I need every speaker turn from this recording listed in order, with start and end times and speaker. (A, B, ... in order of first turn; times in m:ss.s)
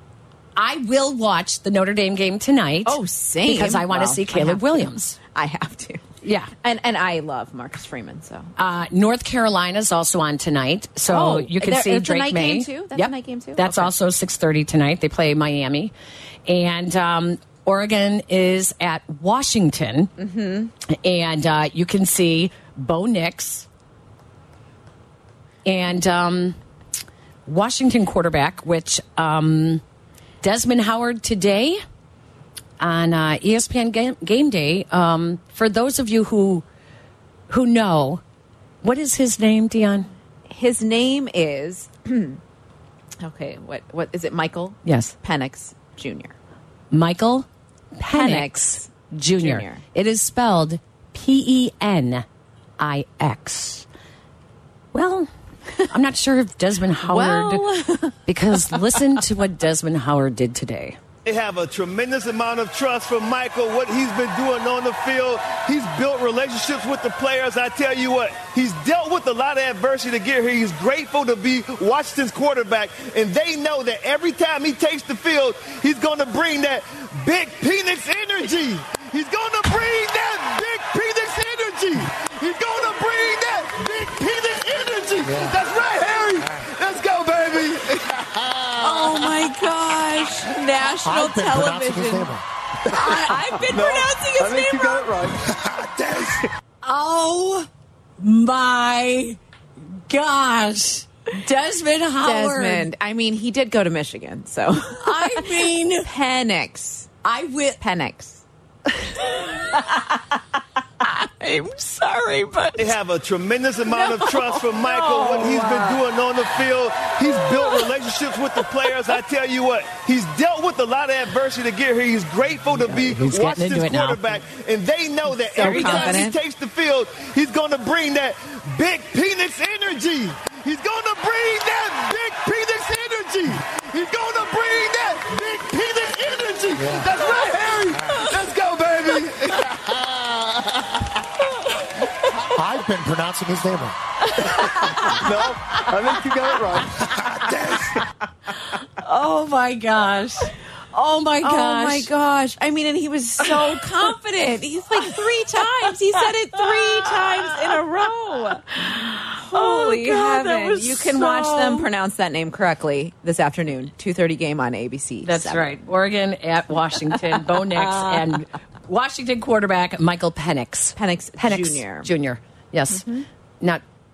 0:00.6-0:05.2 A
0:02.8-0:06.0 B
0:06.2-0:06.5 A
0:06.6-0:08.5 B
0:08.6-0:15.9 A
0:11.1-0:13.9 B
0:16.4-0:20.1 A
0:20.2-0:20.7 B
0:20.9-0:23.7 A
0:25.6-0:26.6 A
0:27.4-0:29.8 A
0:30.4-0:31.8 A
0:32.8-0:36.6 A
0:37.5-0:38.2 A
0:38.8-0:40.1 A
0:40.5-0:42.4 B
0:43.2-0:46.3 B
0:44.8-0:45.1 A
0:46.9-0:52.2 A
0:48.1-0:49.8 B
0:52.8-0:53.9 A
0:54.9-0:55.3 A
0:55.9-0:57.6 A
0:57.0-0:59.0 B
0:58.2-1:01.0 A
1:01.2-1:29.5 C
1:25.2-1:25.6 D
1:28.8-1:32.4 B
1:30.8-1:32.4 D
1:32.9-1:35.1 B
1:33.0-1:33.7 A
1:33.7-1:36.4 C
1:36.8-1:37.7 A
1:38.2-1:39.4 A
1:40.1-1:42.9 A
1:42.2-1:47.1 B
1:45.0-1:46.1 A
1:47.2-1:47.8 A
1:47.8-1:48.4 B
1:49.1-1:50.2 A
1:51.0-1:52.9 A
1:52.8-2:21.0 C
1:53.9-1:55.9 B
1:54.9-1:56.0 A
2:02.8-2:04.2 A
2:05.5-2:06.4 B
2:05.6-2:06.2 A
2:16.8-2:17.1 D
2:22.5-2:23.9 D
2:24.2-2:26.8 A
2:25.1-2:27.0 C
2:27.3-2:27.9 D
2:29.0-2:32.1 A
2:31.4-2:45.7 B
2:33.4-2:33.8 A
2:35.0-2:37.8 A
2:38.7-2:41.9 A
2:45.2-2:53.1 A
2:51.0-2:52.1 B
2:53.0-2:53.2 B